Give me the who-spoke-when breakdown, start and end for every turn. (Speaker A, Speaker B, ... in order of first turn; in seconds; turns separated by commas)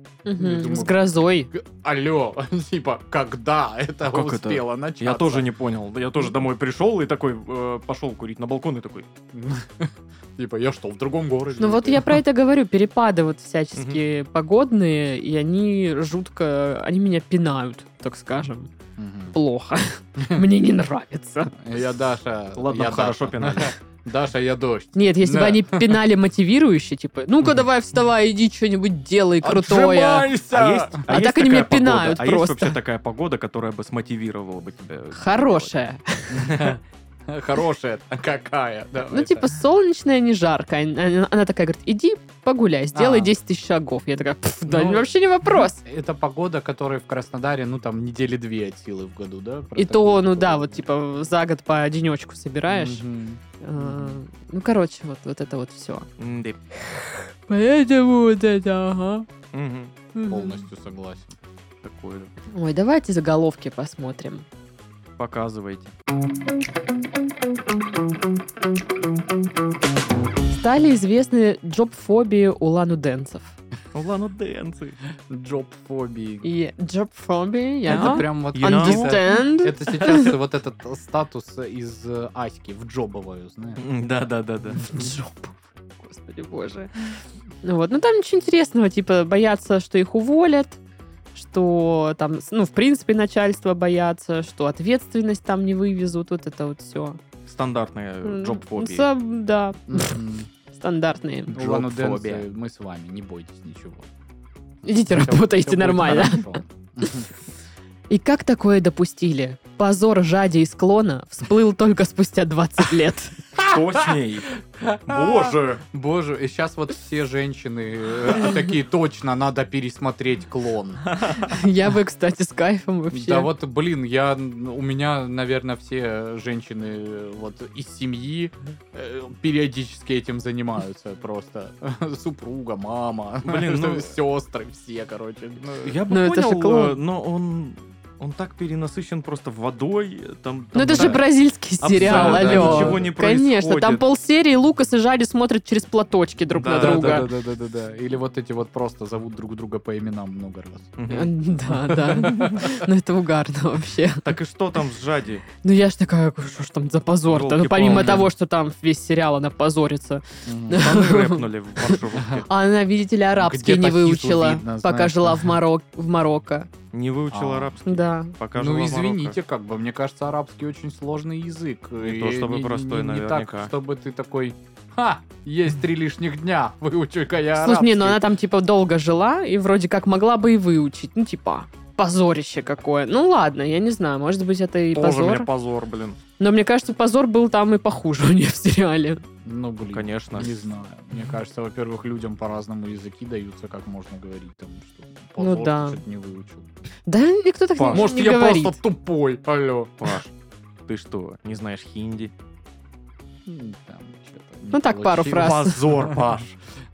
Speaker A: 0.2-1.5, Speaker B: 0.3-5.5, Speaker C: 4.0-9.1, Speaker B: 9.3-12.2, Speaker A: 11.6-18.7, Speaker C: 13.7-14.0, Speaker B: 19.0-19.4, Speaker A: 19.3-21.5, Speaker B: 21.5-26.0, Speaker C: 22.5-23.7, Speaker A: 24.9-30.3, Speaker B: 29.4-31.1, Speaker C: 30.1-35.7, Speaker A: 31.1-32.7, Speaker A: 35.1-36.5, Speaker B: 36.3-39.6, Speaker C: 36.5-36.8, Speaker A: 39.1-45.8, Speaker B: 42.9-43.3, Speaker B: 44.7-50.9, Speaker A: 49.8-53.0, Speaker B: 52.7-54.2, Speaker A: 53.6-56.1, Speaker C: 56.2-56.6, Speaker A: 56.8-59.3, Speaker C: 59.5-59.9, Speaker A: 60.1-60.6, Speaker B: 60.3-61.4, Speaker C: 61.8-62.3, Speaker A: 62.5-64.5, Speaker C: 65.2-65.9, Speaker A: 70.5-73.5, Speaker C: 73.9-75.0, Speaker B: 75.3-76.5, Speaker A: 76.4-80.3, Speaker B: 77.9-83.8, Speaker C: 77.9-79.3, Speaker C: 83.8-84.9, Speaker A: 84.8-86.9, Speaker A: 87.6-90.8, Speaker A: 91.3-97.2, Speaker C: 97.5-99.1, Speaker A: 98.2-100.2, Speaker B: 99.9-100.5, Speaker A: 100.7-101.6, Speaker B: 101.5-104.1, Speaker C: 101.5-102.4, Speaker A: 104.8-106.6, Speaker B: 104.9-107.3, Speaker A: 108.1-113.4, Speaker B: 113.5-114.2, Speaker C: 113.6-115.8, Speaker B: 114.7-121.1, Speaker A: 121.3-123.5, Speaker B: 123.1-136.0, Speaker C: 133.4-134.1, Speaker C: 135.8-141.2, Speaker A: 136.1-137.0, Speaker A: 140.7-147.3, Speaker B: 140.9-141.2, Speaker C: 141.8-144.0, Speaker B: 141.9-143.1, Speaker C: 146.6-147.3, Speaker B: 146.6-150.9, Speaker C: 151.0-151.3, Speaker A: 151.1-154.3, Speaker B: 151.8-152.7, Speaker C: 152.2-152.6, Speaker C: 154.2-155.4, Speaker A: 155.6-166.7, Speaker C: 157.3-158.3, Speaker B: 157.9-158.3, Speaker B: 160.4-160.9, Speaker C: 160.8-162.5, Speaker B: 162.1-162.4, Speaker B: 163.3-165.6, Speaker C: 166.9-169.4, Speaker B: 167.3-167.8, Speaker A: 167.8-168.3, Speaker B: 168.5-178.2, Speaker C: 172.0-173.7, Speaker A: 177.6-185.5, Speaker C: 184.9-186.2, Speaker A: 186.4-189.2, Speaker B: 189.4-196.7, Speaker C: 189.8-190.6, Speaker A: 195.4-196.0, Speaker A: 197.1-198.8, Speaker C: 197.8-198.1, Speaker B: 197.9-200.1, Speaker C: 200.0-200.3, Speaker C: 200.8-202.3, Speaker B: 203.4-206.3, Speaker A: 204.7-205.8, Speaker C: 205.3-206.6